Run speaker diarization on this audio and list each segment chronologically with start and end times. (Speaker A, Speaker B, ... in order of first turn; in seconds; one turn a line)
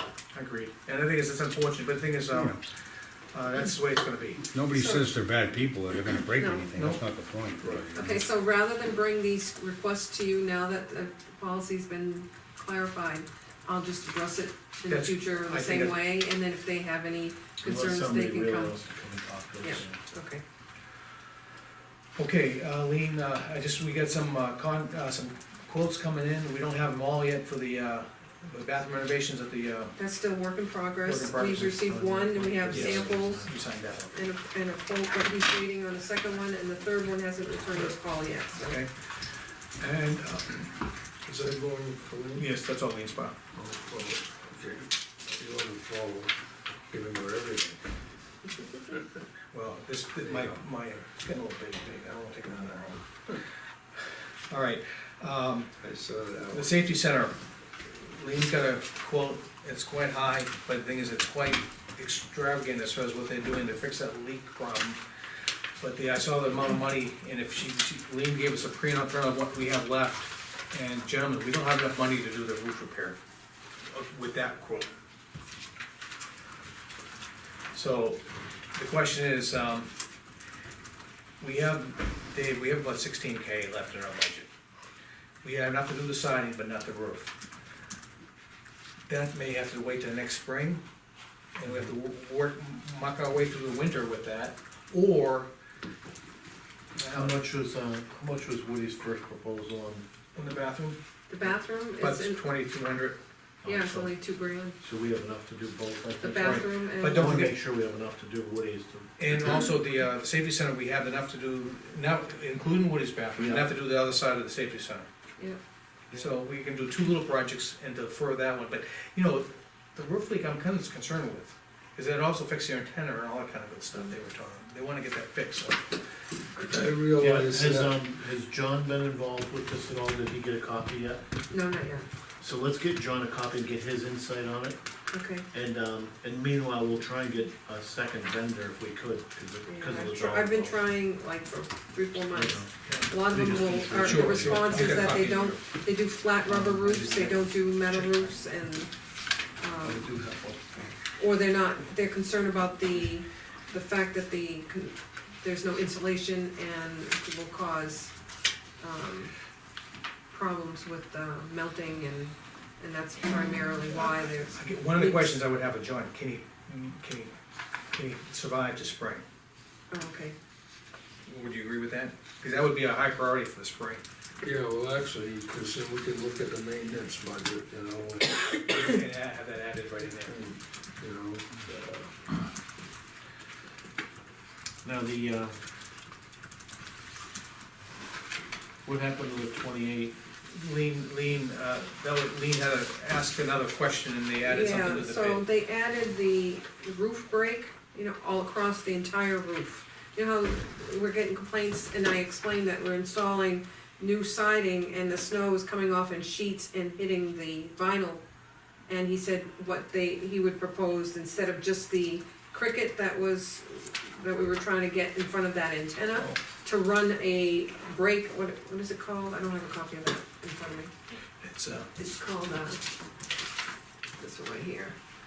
Speaker A: 0.3-2.6
Speaker B: 2.3-2.6
Speaker A: 3.3-4.5
Speaker B: 4.5-8.2
Speaker C: 4.7-5.1
Speaker C: 6.4-6.7
Speaker A: 6.7-7.0
Speaker D: 7.6-7.9
Speaker C: 7.9-18.8
Speaker A: 14.9-16.0
Speaker E: 17.6-20.0
Speaker C: 19.6-20.4
Speaker A: 22.1-30.0
Speaker C: 30.0-33.4
Speaker A: 31.0-31.7
Speaker E: 31.5-33.5
Speaker A: 32.7-34.2
Speaker C: 34.1-38.8
Speaker A: 38.6-38.9
Speaker A: 39.8-40.7
Speaker D: 41.2-42.5
Speaker A: 42.3-43.3
Speaker D: 43.5-46.3
Speaker D: 46.9-47.8
Speaker A: 49.5-53.0
Speaker D: 50.2-50.6
Speaker A: 54.5-55.7
Speaker D: 55.8-56.7
Speaker A: 56.5-65.0
Speaker A: 65.8-73.2
Speaker A: 73.9-74.9
Speaker A: 77.7-78.2
Speaker A: 78.7-79.9
Speaker A: 81.4-84.5
Speaker A: 85.4-87.3
Speaker A: 89.1-90.8
Speaker A: 91.5-95.5
Speaker A: 97.0-97.4
Speaker E: 97.1-100.0
Speaker A: 100.3-101.0
Speaker C: 101.3-102.4
Speaker A: 102.0-103.2
Speaker E: 103.6-104.1
Speaker C: 103.7-104.8
Speaker E: 104.8-109.5
Speaker C: 106.2-107.4
Speaker A: 106.4-107.5
Speaker A: 109.2-115.1
Speaker E: 113.4-113.7
Speaker A: 116.1-125.8
Speaker D: 126.6-128.0
Speaker E: 127.2-131.2
Speaker C: 131.5-132.0
Speaker E: 132.4-134.8
Speaker C: 135.1-135.4
Speaker E: 135.5-140.8
Speaker C: 139.7-148.9
Speaker E: 142.3-145.2
Speaker A: 142.8-143.1
Speaker A: 144.0-145.6
Speaker E: 146.5-147.5
Speaker C: 149.6-150.0
Speaker D: 149.9-150.8
Speaker C: 151.2-158.1
Speaker C: 158.8-159.3
Speaker C: 160.3-165.4
Speaker A: 163.8-167.3
Speaker A: 167.9-169.2
Speaker C: 169.9-170.3
Speaker A: 171.2-174.0
Speaker D: 174.4-178.4
Speaker A: 178.7-180.4
Speaker D: 180.2-182.1
Speaker E: 184.8-185.5
Speaker E: 188.8-190.2
Speaker A: 190.5-195.4
Speaker C: 194.4-208.2
Speaker C: 208.9-220.9
Speaker A: 221.4-221.9
Speaker C: 221.9-222.8
Speaker C: 224.2-224.9